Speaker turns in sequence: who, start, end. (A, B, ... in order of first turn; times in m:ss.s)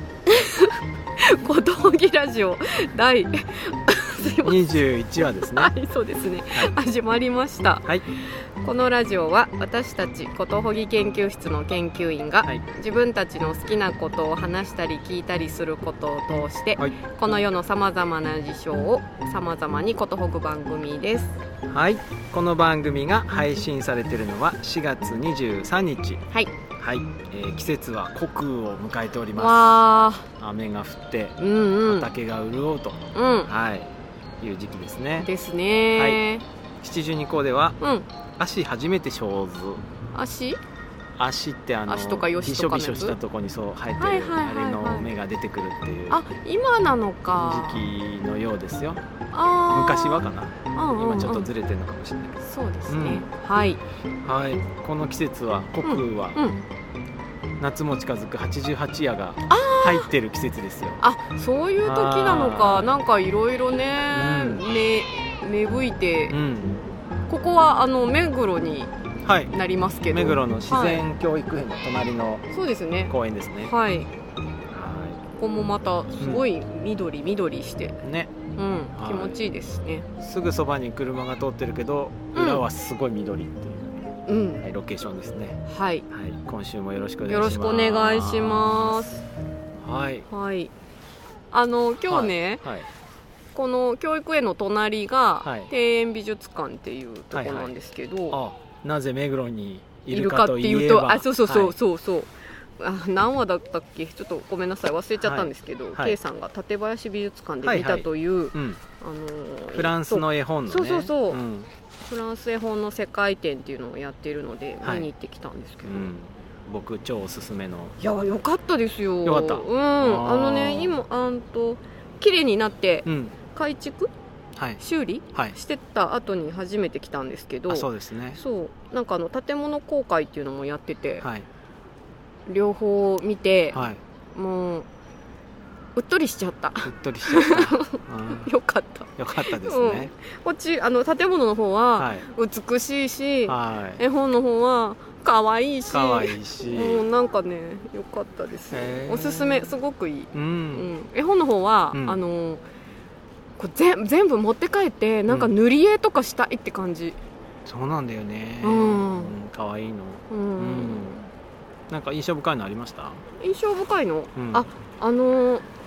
0:00.3-0:21.4 A
0:04.4-0:05.7 B
0:21.7-0:26.2 B
0:26.8-0:29.8 B
0:29.4-0:30.3 A
0:30.4-0:35.3 B
0:31.4-0:32.1 A
0:33.2-0:33.5 A
0:35.2-0:36.4 A
0:35.9-0:36.2 B
0:36.8-0:37.8 B
0:37.8-0:38.1 A
0:38.4-0:39.8 B
0:40.1-0:40.6 A
0:41.2-0:46.2 B
0:41.9-0:43.2 A
0:44.0-0:45.1 A
0:46.1-0:47.9 A
0:47.4-0:49.0 B
0:49.3-0:51.5 A
0:49.7-0:52.4 B
0:52.4-0:53.8 A
0:52.9-0:53.3 B
0:54.2-0:56.4 B
0:55.8-0:56.6 A
0:57.6-1:01.0 B
0:59.5-1:00.1 A
1:01.0-1:06.4 A
1:01.8-1:03.0 B
1:04.1-1:04.7 B
1:06.3-1:06.8 B
1:07.3-1:08.9 A
1:09.2-1:09.5 B
1:09.5-1:11.0 A
1:10.1-1:12.5 B
1:12.5-1:14.1 A
1:13.1-1:13.7 B
1:14.7-1:15.2 B
1:15.4-1:18.0 A
1:16.2-1:16.5 B
1:18.0-1:18.4 B
1:18.5-1:20.1 A
1:18.9-1:19.4 B
1:20.2-1:29.1 B
1:22.4-1:22.6 A
1:24.3-1:24.6 A
1:25.7-1:26.1 A
1:27.3-1:29.2 A
1:29.8-1:30.3 B
1:30.3-1:30.7 A
1:31.5-1:32.6 A
1:32.1-1:32.9 B
1:33.5-1:38.4 A
1:35.4-1:35.7 B
1:37.3-1:37.7 B
1:38.3-1:41.8 B
1:40.1-1:51.4 A
1:45.2-1:46.2 B
1:47.6-1:48.8 B
1:49.7-1:51.7 B
1:52.0-1:56.1 A
1:54.8-1:55.1 B
1:55.8-1:58.0 B
1:58.0-2:04.1 A
1:59.2-2:01.0 B
2:03.1-2:03.4 B
2:04.8-2:11.3 A
2:07.7-2:08.4 B
2:11.2-2:11.5 B
2:12.5-2:14.9 A
2:13.7-2:14.0 B
2:16.0-2:32.6 A
2:16.8-2:18.5 B
2:19.2-2:20.1 B
2:22.0-2:22.3 B
2:23.5-2:24.0 B
2:25.9-2:27.0 B
2:28.7-2:29.8 B
2:30.3-2:30.9 B
2:31.9-2:32.2 B
2:33.6-2:37.2 A
2:35.3-2:35.5 B
2:37.7-2:41.1 B
2:38.6-2:39.3 A
2:40.3-2:41.3 A
2:41.9-2:43.2 B
2:43.4-2:45.6 A
2:44.4-2:44.7 B